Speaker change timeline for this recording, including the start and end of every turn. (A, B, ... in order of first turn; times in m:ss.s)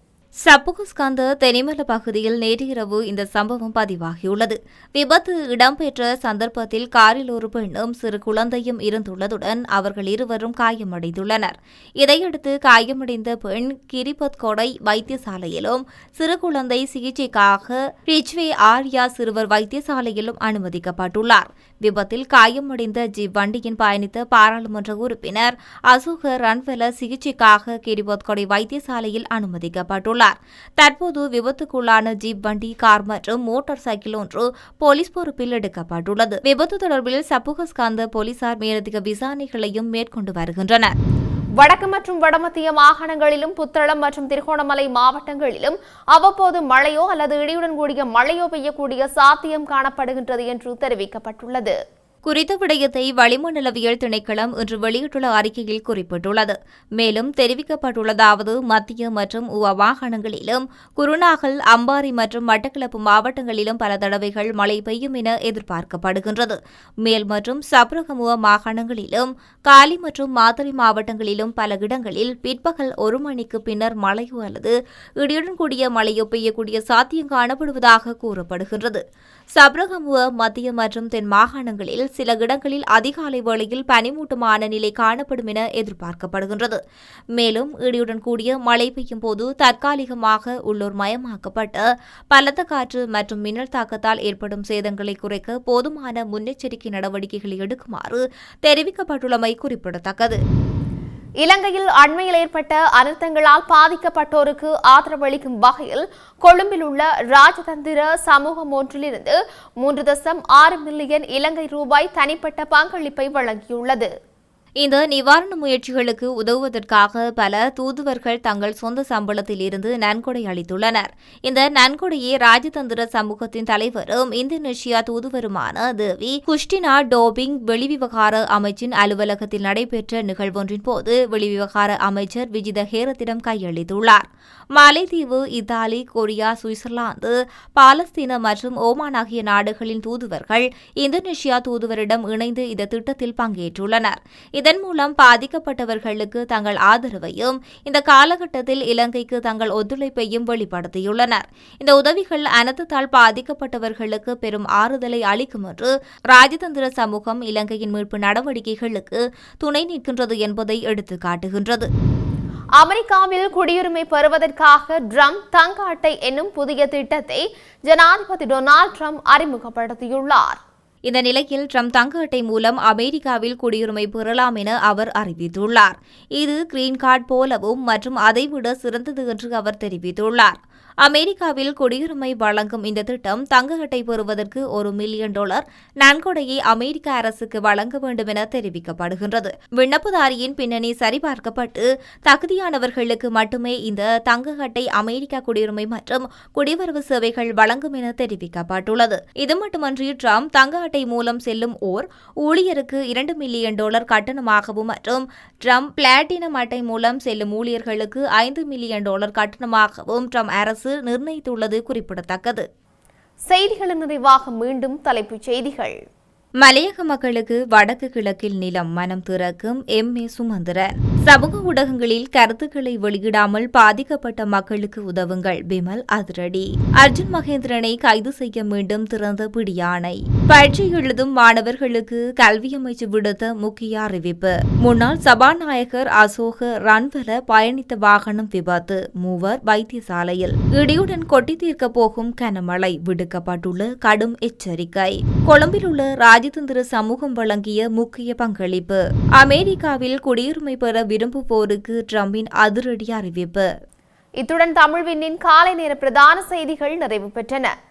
0:00.5-0:40.9 A
0:41.6-0:51.8 B
0:52.2-1:19.0 A
1:19.6-1:26.8 A
1:27.4-1:40.4 A
1:41.4-1:54.1 B
1:54.8-2:41.9 A
2:42.8-2:50.6 B
2:51.1-3:32.6 A
3:33.5-3:36.0 B
3:36.6-4:13.7 A
4:14.4-4:17.7 B